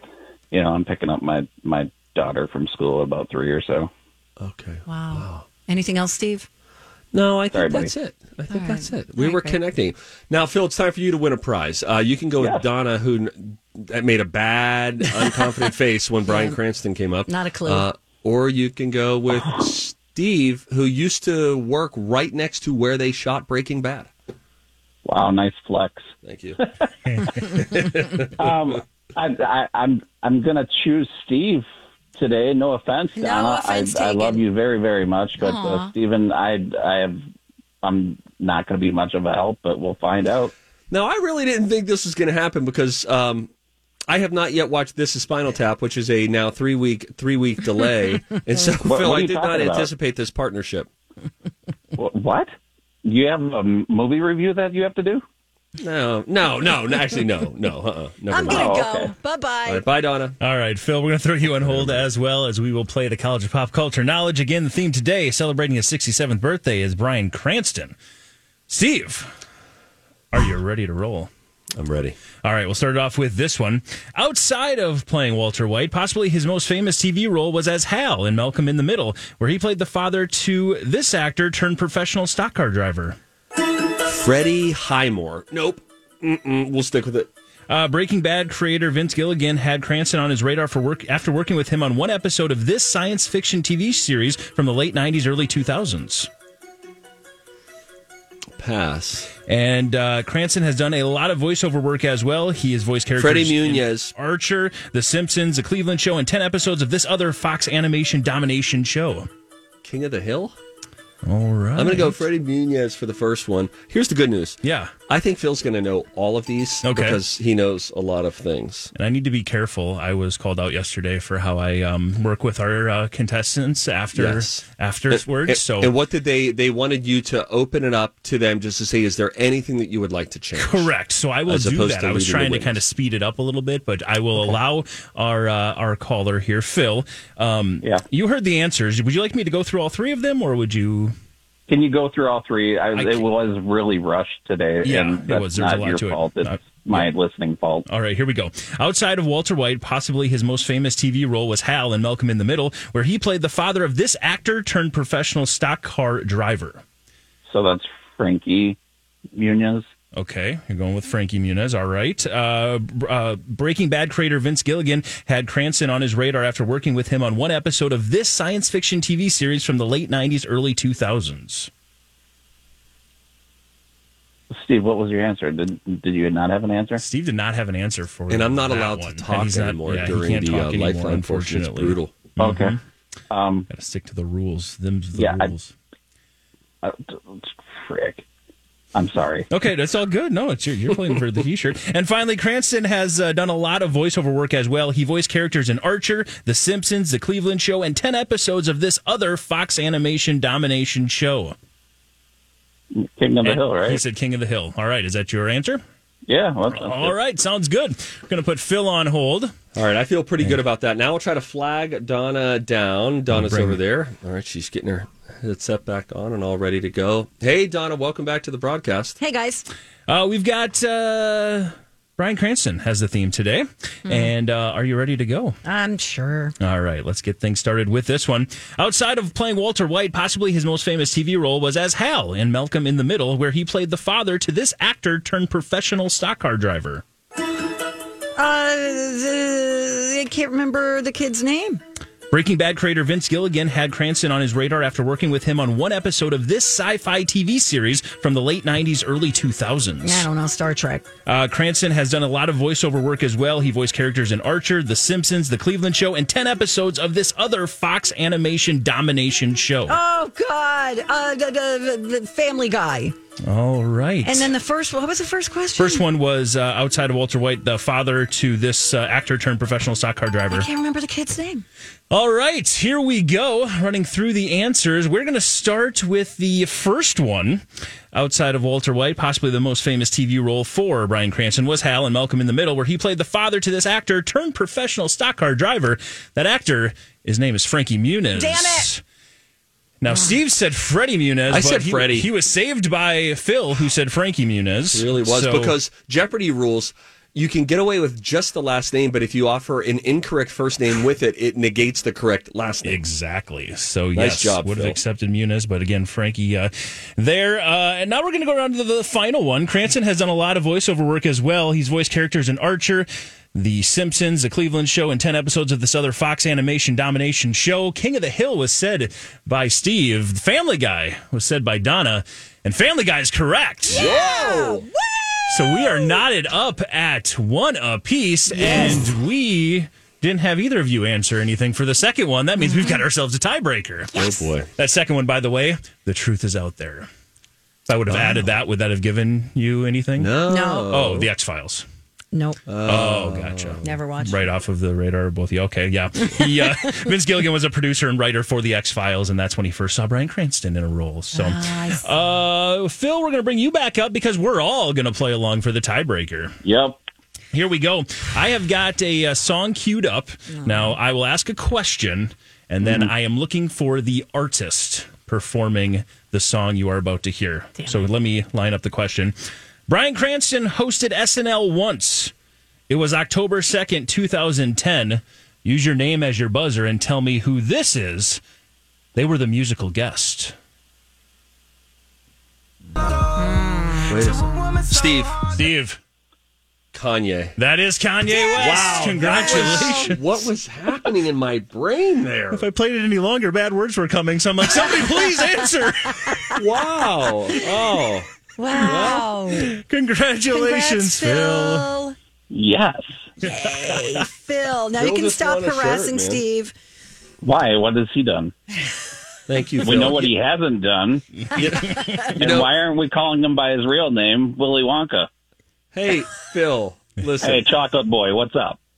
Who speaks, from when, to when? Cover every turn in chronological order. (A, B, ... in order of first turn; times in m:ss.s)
0:00.5-0:03.9 A
0:04.4-0:05.4 B
0:04.9-0:06.5 C
0:07.1-0:24.1 B
0:07.5-0:07.9 A
0:08.5-0:09.6 C
0:16.3-0:16.6 C
0:17.3-0:17.9 C
0:25.1-0:26.1 A
0:26.2-0:26.6 B
0:27.1-0:27.4 D
0:27.6-0:28.5 B
0:28.4-0:37.2 A
0:33.2-0:34.4 C
0:35.4-0:35.9 C
0:37.8-0:40.5 A
0:40.9-0:43.5 B
0:44.1-0:50.9 B
0:48.8-0:49.9 A
0:52.0-0:52.5 A
0:53.0-0:55.2 A
0:55.8-0:58.8 B
0:58.3-0:59.8 C
0:58.4-0:59.1 A
0:59.6-1:00.4 B
1:00.4-1:07.9 D
1:01.6-1:02.1 B
1:08.7-1:09.3 D
1:10.3-1:11.3 D
1:11.8-1:12.2 B
1:12.4-1:23.2 D
1:24.0-1:27.3 B
1:27.7-1:36.3 D
1:38.6-1:39.3 B
1:39.4-1:49.3 D
1:43.2-1:44.1 B
1:49.8-1:50.6 B
1:51.2-1:52.1 D
1:51.8-1:58.9 B
1:54.6-1:54.9 D
1:56.8-1:57.2 D
1:58.9-2:05.9 D
2:04.1-2:10.9 B
2:10.6-2:21.1 D
2:11.5-2:12.8 B
2:21.7-2:27.8 A
2:23.0-2:23.2 D
2:24.8-2:27.1 D
2:27.9-2:36.8 D
2:37.5-2:38.8 A
2:39.4-2:39.9 A
2:40.2-2:51.7 D
2:54.5-2:57.0 A
2:57.0-3:02.8 D
2:58.3-3:02.1 B
3:02.4-3:02.8 A
3:03.3-3:03.7 A
3:03.7-3:05.7 D
3:05.2-3:05.5 A
3:06.8-3:08.2 A
3:08.9-3:09.4 A
3:09.5-3:21.6 D
3:22.9-3:24.0 A
3:23.4-3:25.8 D
3:26.3-3:27.2 A
3:26.7-3:29.5 D
3:29.8-3:39.2 B
3:33.3-3:33.8 D
3:39.2-3:39.7 C
3:40.1-3:45.6 D
3:44.1-3:44.3 C
3:45.6-3:46.6 C
3:46.6-3:57.0 D
3:58.4-4:01.8 C
4:02.3-4:10.3 D
4:10.0-4:11.1 C
4:11.3-4:20.0 D
4:19.9-4:23.1 C
4:23.4-4:24.5 D
4:24.2-4:26.0 C
4:25.8-4:30.7 D
4:30.5-4:31.6 C
4:32.1-4:49.0 D
4:48.3-4:48.9 C
4:50.0-4:55.8 D
4:51.5-4:52.3 B
4:54.9-5:03.0 B
5:02.8-5:24.1 D
5:04.1-5:05.0 B
5:23.9-5:24.9 B
5:23.9-5:26.2 C
5:25.5-5:34.2 D
5:28.5-5:29.1 C
5:32.6-5:33.0 C
5:34.1-5:34.7 B
5:34.1-5:34.4 C
5:34.8-5:37.1 D
5:37.9-5:40.3 D
5:38.1-5:38.5 B
5:40.2-5:41.3 B
5:40.5-5:40.9 C
5:40.9-5:41.8 D
5:42.3-5:42.6 C
5:42.7-5:43.8 B
5:42.8-5:56.6 D
5:43.8-5:44.5 C
5:46.4-5:46.9 C
5:51.3-5:52.1 C
5:56.6-5:57.0 A
5:57.5-6:09.4 D
6:00.5-6:01.0 C
6:09.9-6:12.3 D
6:12.9-6:18.4 D
6:19.1-6:20.5 D
6:23.2-6:24.2 C
6:24.1-6:25.5 B
6:25.5-6:26.0 D
6:26.9-6:27.6 B
6:27.6-6:30.4 D
6:28.3-6:30.2 C
6:28.6-6:32.7 B
6:32.5-6:36.5 D
6:36.1-6:36.5 C
6:36.6-6:38.3 B
6:38.6-6:39.8 C
6:38.8-6:39.3 B
6:38.9-6:41.9 D
6:40.5-6:42.1 C
6:42.5-6:43.2 A
6:43.4-6:46.7 C
6:43.6-6:44.1 D
6:45.0-6:46.4 B
6:47.4-6:48.5 A
6:49.5-6:50.3 B
6:49.8-6:51.3 A
6:51.6-6:52.7 B
6:51.8-6:52.3 C
6:52.4-6:55.3 A
6:55.9-6:57.6 B
6:57.4-6:58.8 A